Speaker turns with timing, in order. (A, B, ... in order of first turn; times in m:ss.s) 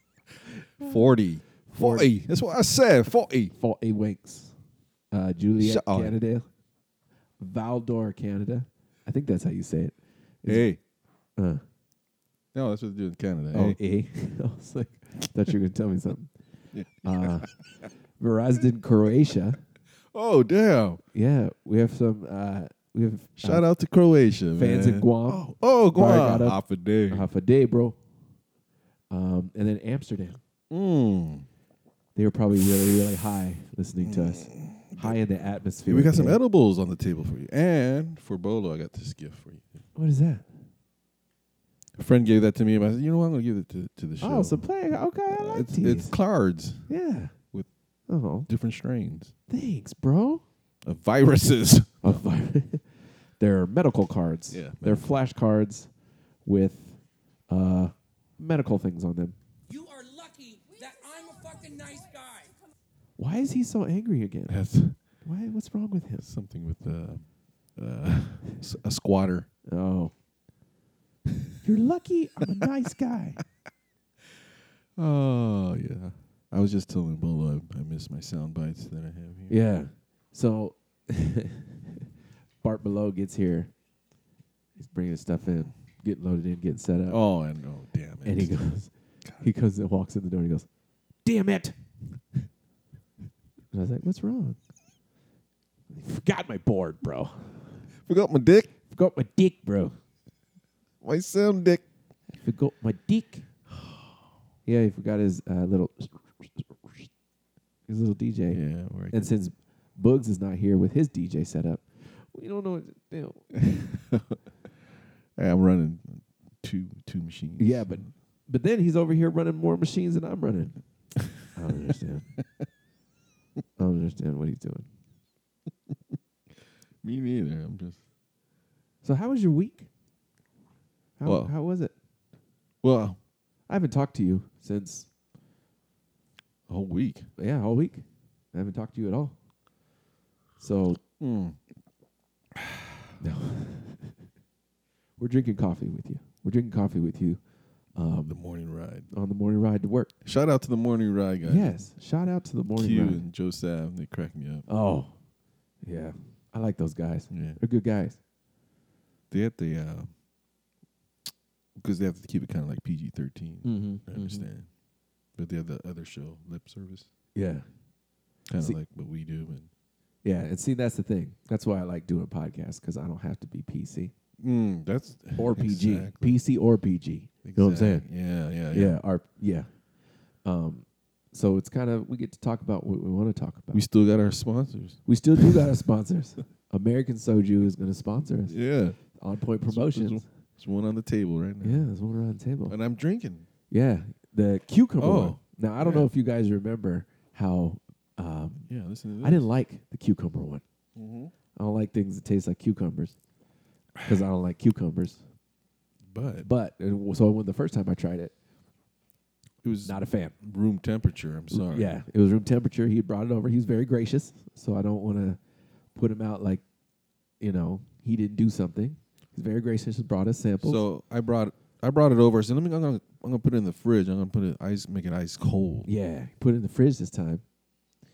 0:00.8-0:03.5 A
0:01.7-0:02.1 B
0:03.5-0:04.6 B
0:05.1-0:06.5 B
0:05.6-0:06.1 A
0:07.4-0:10.8 B
0:10.4-0:10.8 A
0:11.4-0:11.6 B
0:12.5-0:13.8 A
0:13.5-0:16.3 B
0:16.7-0:17.5 A
0:17.0-0:17.6 B
0:18.2-0:19.6 B
0:20.1-0:21.0 A
0:21.1-0:23.7 B
0:23.4-0:27.3 A
0:24.5-0:28.0 B
0:29.1-0:30.4 B
0:30.7-0:31.5 A
0:32.1-0:36.4 B
0:34.0-0:35.2 A
0:35.8-0:39.8 A
0:39.9-0:40.5 B
0:42.0-0:44.7 A
0:44.2-0:46.2 B
0:45.3-0:46.9 A
0:46.8-0:47.4 B
0:48.1-0:48.5 B
0:48.5-0:49.3 A
0:49.5-0:50.4 B
0:50.8-0:52.2 A
0:52.0-0:55.9 B
0:54.5-0:55.2 A
0:56.4-0:59.4 B
0:59.7-1:02.5 C
1:03.2-1:04.6 B
1:04.5-1:05.0 A
1:05.2-1:06.2 B
1:06.2-1:09.5 A
1:09.7-1:10.1 B
1:11.6-1:13.4 B
1:15.0-1:19.6 A
1:19.5-1:22.0 B
1:22.6-1:23.7 B
1:24.8-1:27.2 B
1:27.1-1:28.7 A
1:28.2-1:30.7 B
1:31.2-1:32.2 B
1:33.7-1:34.6 B
1:35.9-1:37.9 B
1:38.0-1:38.7 A
1:38.9-1:40.0 B
1:41.0-1:41.8 A
1:42.3-1:43.5 B
1:44.6-1:47.1 B
1:47.9-1:53.6 B
1:48.5-1:49.3 A
1:54.1-1:54.4 A
1:55.4-1:58.1 A
1:57.6-2:00.8 B
2:01.4-2:02.3 B
2:03.8-2:04.9 B
2:07.0-2:08.0 A
2:09.0-2:09.9 B
2:11.2-2:11.9 B
2:11.2-2:11.5 A
2:12.8-2:13.2 A
2:13.7-2:15.1 B
2:16.7-2:17.3 A
2:17.4-2:19.4 B
2:20.6-2:21.0 B
2:21.1-2:21.6 A
2:22.6-2:22.9 A
2:23.2-2:24.1 B
2:25.2-2:27.4 B
2:27.9-2:28.4 B
2:28.3-2:29.1 A
2:29.1-2:30.1 B
2:30.2-2:31.8 A
2:31.4-2:33.2 B
2:32.8-2:34.6 A
2:34.7-2:35.2 B
2:35.8-2:38.2 B
2:37.3-2:37.6 A
2:39.3-2:40.1 A
2:41.8-2:44.7 A
2:43.6-2:44.5 B
2:45.3-2:47.1 A
2:47.3-2:47.7 B
2:48.5-2:49.7 A
2:50.2-2:54.1 B
2:54.4-2:56.4 A
2:55.4-2:58.1 B
2:57.4-2:59.0 A
2:58.7-2:59.8 B
3:00.4-3:03.8 B
3:03.7-3:05.6 A
3:05.0-3:10.3 B
3:08.5-3:09.0 A
3:09.6-3:11.9 A
3:11.6-3:12.8 B
3:12.7-3:13.5 A
3:13.7-3:18.7 B
3:15.0-3:16.1 A
3:18.7-3:19.5 A
3:19.2-3:20.6 B
3:20.9-3:21.3 A
3:21.5-3:23.2 B
3:24.0-3:25.2 B
3:26.1-3:26.5 A
3:26.4-3:28.3 B
3:29.6-3:32.0 A
3:29.8-3:30.4 B
3:31.5-3:35.4 B
3:35.9-3:36.6 B
3:37.4-3:40.8 B
3:40.6-3:45.9 A
3:45.8-3:47.4 B